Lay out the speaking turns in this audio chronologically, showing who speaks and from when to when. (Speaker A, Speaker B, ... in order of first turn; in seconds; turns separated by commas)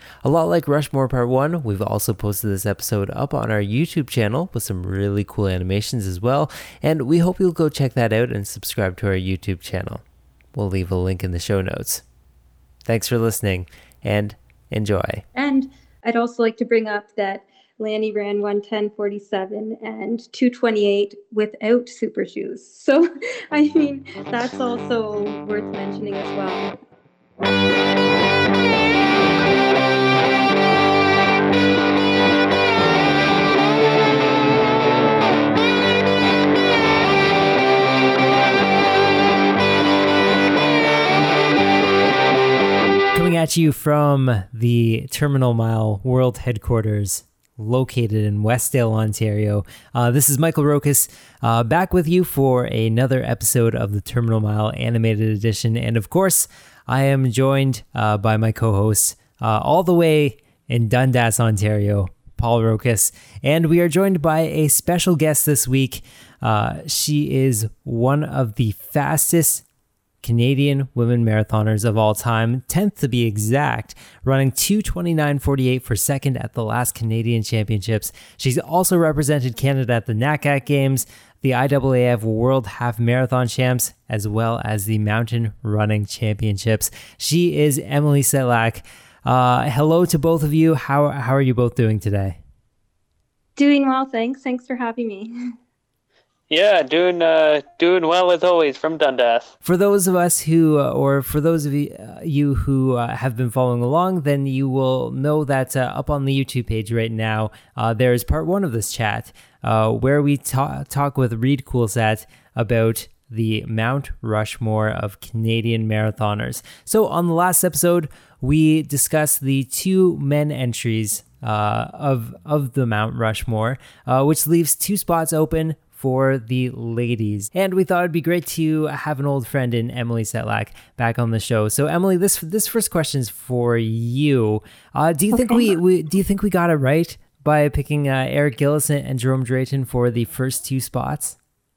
Speaker A: 0.2-12.0, Speaker A: 12.8-15.2, Speaker B: 15.3-26.7, Speaker A: 43.1-69.6, Speaker A: 70.2-92.4, Speaker B: 93.5-95.3, Speaker C: 96.5-99.5, Speaker A: 99.6-141.4, Speaker B: 135.3-135.7